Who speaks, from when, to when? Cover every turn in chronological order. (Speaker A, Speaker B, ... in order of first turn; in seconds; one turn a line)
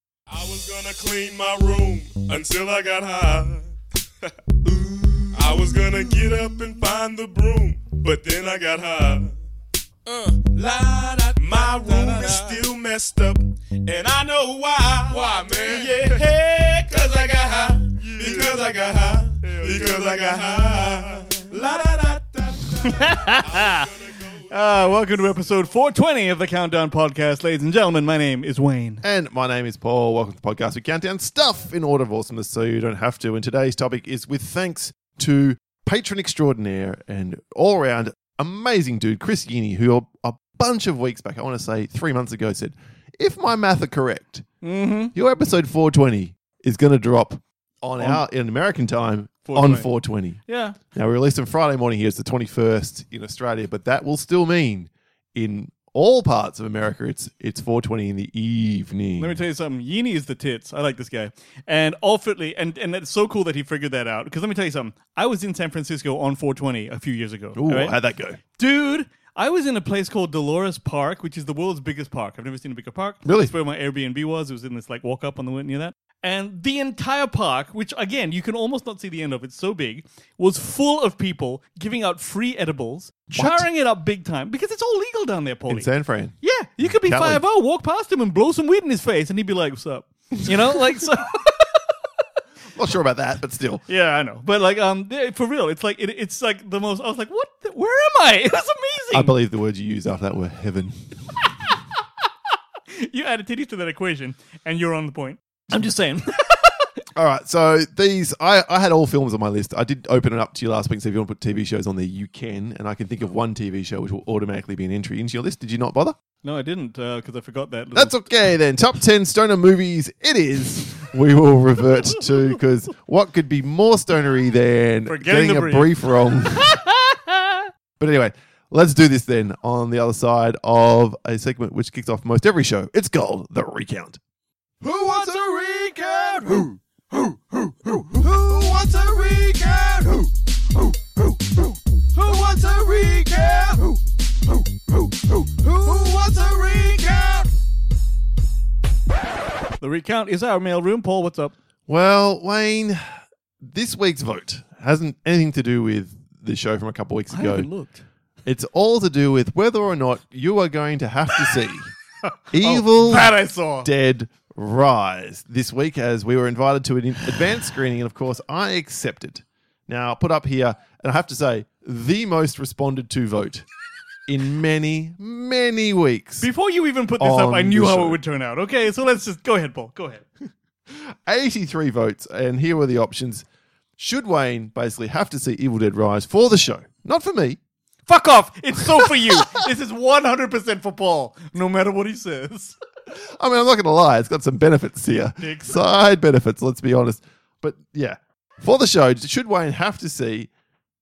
Speaker A: 0.3-3.7
Speaker A: 4.7-9.3
Speaker A: 10.1-24.6
Speaker B: 22.9-23.9
Speaker B: 24.5-29.0
Speaker C: 29.0-44.5
Speaker B: 44.6-45.1
Speaker C: 45.1-50.4
Speaker B: 48.0-48.2
Speaker B: 49.5-49.9
Speaker B: 50.5-50.8
Speaker C: 50.9-59.4
Speaker B: 59.2-68.0
Speaker C: 67.5-68.4
Speaker B: 68.6-85.9
Speaker C: 73.2-73.5
Speaker C: 83.3-83.7
Speaker C: 85.7-87.4
Speaker B: 86.4-91.9
Speaker C: 92.7-93.8
Speaker B: 93.9-99.3
Speaker C: 99.1-101.2
Speaker B: 103.0-106.9
Speaker C: 107.2-116.2
Speaker B: 116.4-118.2
Speaker C: 117.9-126.7
Speaker B: 125.1-127.7
Speaker C: 128.0-134.2
Speaker C: 134.8-140.3
Speaker C: 142.1-144.0
Speaker C: 145.1-147.5
Speaker B: 149.8-151.5
Speaker C: 151.9-153.0
Speaker C: 153.6-157.7
Speaker B: 157.3-158.1
Speaker C: 158.5-161.9
Speaker B: 162.2-163.9
Speaker C: 162.5-173.7
Speaker C: 174.3-176.5
Speaker B: 176.4-180.2
Speaker C: 177.2-178.2
Speaker C: 180.9-183.4
Speaker C: 184.0-187.6
Speaker B: 188.1-192.8
Speaker C: 188.8-189.4
Speaker C: 193.2-200.5
Speaker B: 195.4-195.8